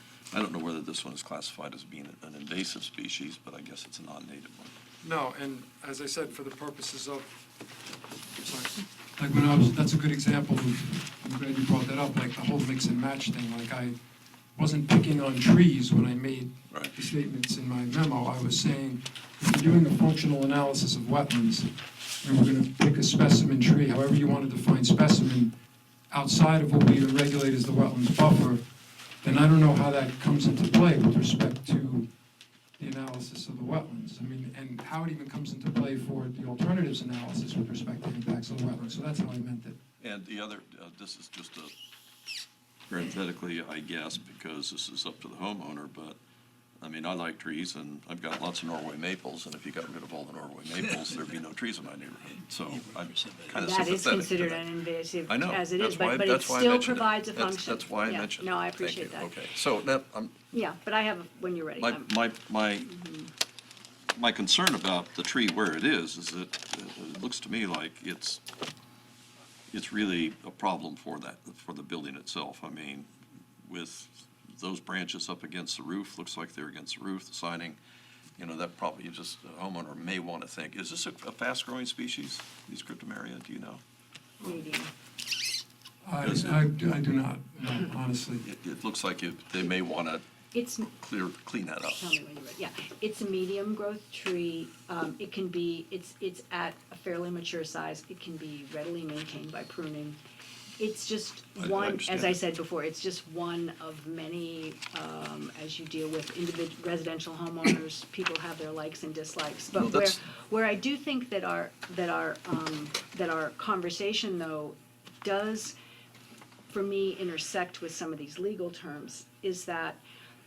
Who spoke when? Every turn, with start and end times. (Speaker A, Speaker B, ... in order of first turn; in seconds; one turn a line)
Speaker A: 0.3-4.7
Speaker B: 5.0-7.3
Speaker B: 8.4-14.0
Speaker B: 14.6-25.5
Speaker A: 16.7-16.9
Speaker B: 26.1-28.6
Speaker B: 29.2-32.1
Speaker B: 32.8-39.8
Speaker A: 40.0-41.7
Speaker A: 42.9-46.2
Speaker A: 46.8-54.7
Speaker C: 53.5-59.5
Speaker A: 55.2-60.4
Speaker C: 60.5-62.2
Speaker A: 61.8-63.0
Speaker C: 62.8-63.3
Speaker A: 64.1-68.4
Speaker A: 69.7-73.1
Speaker A: 73.6-77.8
Speaker A: 78.4-83.8
Speaker C: 84.4-84.9
Speaker B: 86.0-88.5
Speaker A: 86.2-86.8
Speaker A: 88.4-92.1
Speaker C: 90.5-90.9
Speaker C: 91.9-100.2
Speaker C: 100.8-115.8
Speaker A: 101.6-102.4
Speaker A: 109.8-110.2
Speaker C: 116.7-120.0